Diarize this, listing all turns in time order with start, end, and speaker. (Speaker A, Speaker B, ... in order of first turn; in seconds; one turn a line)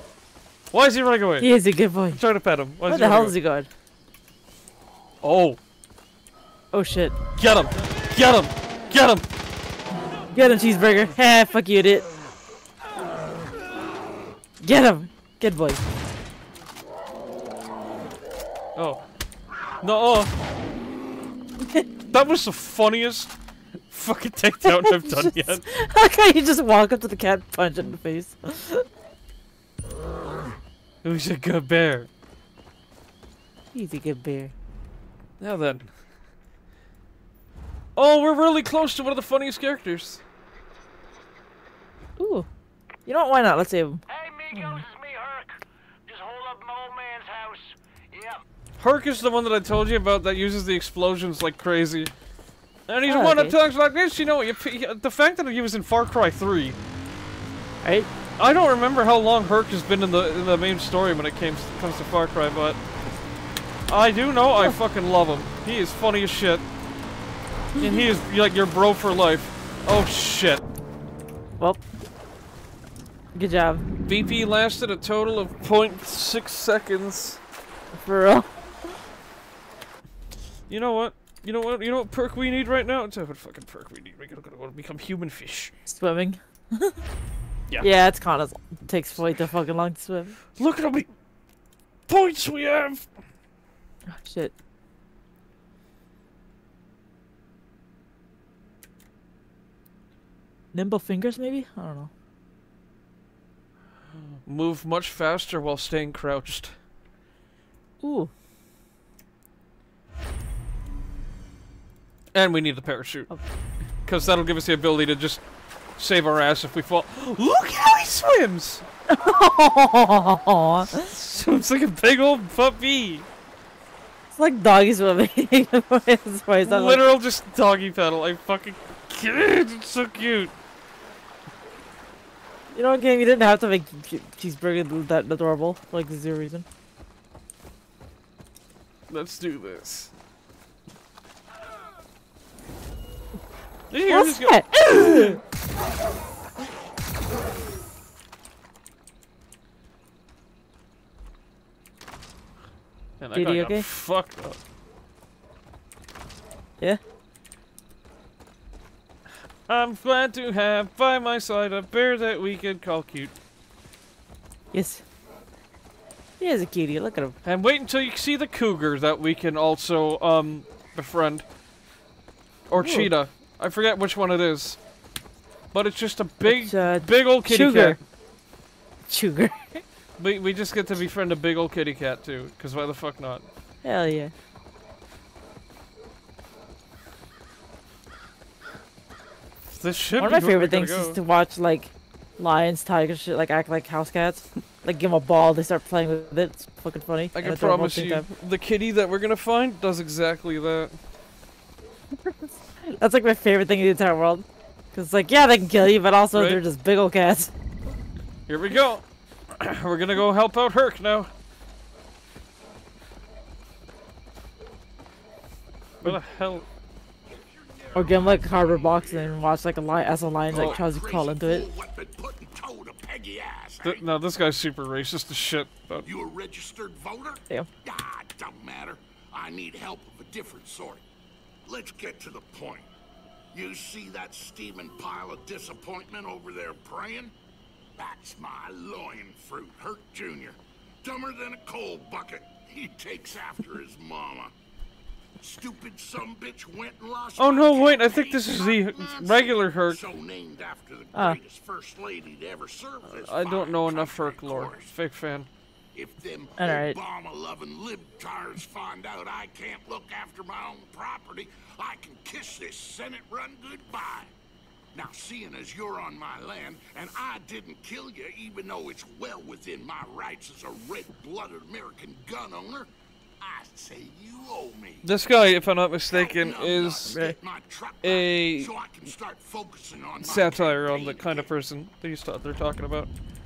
Speaker A: 0.7-1.5
Speaker B: 1.4-2.2
Speaker A: 2.1-3.4
Speaker B: 2.8-3.7
Speaker A: 5.2-5.6
Speaker B: 6.7-7.2
Speaker A: 7.4-9.2
Speaker B: 10.3-12.1
Speaker B: 14.6-15.8
Speaker A: 18.8-19.0
Speaker A: 19.8-20.3
Speaker B: 21.6-21.9
Speaker A: 22.1-23.3
Speaker A: 23.9-25.6
Speaker B: 24.6-28.9
Speaker A: 31.0-32.1
Speaker B: 33.7-34.5
Speaker A: 35.4-35.9
Speaker A: 38.0-40.2
Speaker B: 42.2-42.5
Speaker B: 43.0-44.8
Speaker C: 44.1-48.4
Speaker A: 48.8-52.1
Speaker A: 52.9-56.8
Speaker B: 53.0-53.5
Speaker B: 57.8-58.1
Speaker A: 58.4-62.8
Speaker A: 63.9-66.6
Speaker B: 67.7-68.0
Speaker A: 67.8-70.6
Speaker B: 73.3-73.8
Speaker A: 74.1-77.4
Speaker B: 77.9-78.5
Speaker A: 80.7-85.7
Speaker B: 85.8-87.0
Speaker B: 87.8-90.4
Speaker A: 90.5-91.1
Speaker A: 92.1-93.1
Speaker B: 94.1-94.5
Speaker B: 100.7-102.1
Speaker A: 104.4-106.8
Speaker B: 108.0-108.3
Speaker A: 112.3-113.3
Speaker A: 114.0-115.4
Speaker A: 116.0-118.8
Speaker B: 119.1-121.1
Speaker A: 120.9-123.3
Speaker B: 124.3-127.0
Speaker A: 126.6-130.5
Speaker B: 132.7-136.6
Speaker A: 139.1-140.1
Speaker A: 143.9-145.4
Speaker B: 144.1-145.4
Speaker A: 153.2-154.6
Speaker B: 153.3-153.8
Speaker A: 159.7-163.3
Speaker B: 164.7-165.0
Speaker B: 166.4-167.3
Speaker A: 167.4-171.4
Speaker A: 172.7-174.8
Speaker B: 172.8-173.1
Speaker A: 175.7-178.0
Speaker B: 176.4-178.0
Speaker B: 179.1-179.8
Speaker A: 180.2-183.4
Speaker B: 183.8-184.3
Speaker A: 189.7-191.2
Speaker B: 190.2-198.2
Speaker A: 197.3-201.0
Speaker B: 202.8-207.5
Speaker A: 206.3-206.6
Speaker A: 208.5-211.3
Speaker A: 216.0-216.7
Speaker D: 216.0-216.7
Speaker D: 217.3-219.4
Speaker B: 217.9-221.7
Speaker D: 220.5-224.0
Speaker A: 220.5-220.8
Speaker A: 223.8-226.1
Speaker D: 226.0-231.0
Speaker D: 231.6-232.9
Speaker D: 233.5-237.3
Speaker D: 237.9-244.5
Speaker D: 245.4-254.9
Speaker A: 247.4-250.0
Speaker A: 253.0-255.5
Speaker D: 255.9-264.3
Speaker B: 256.6-257.0
Speaker D: 264.9-275.1
Speaker A: 275.0-277.2
Speaker D: 276.1-281.5
Speaker B: 277.1-277.4
Speaker A: 278.0-278.7
Speaker A: 280.2-283.1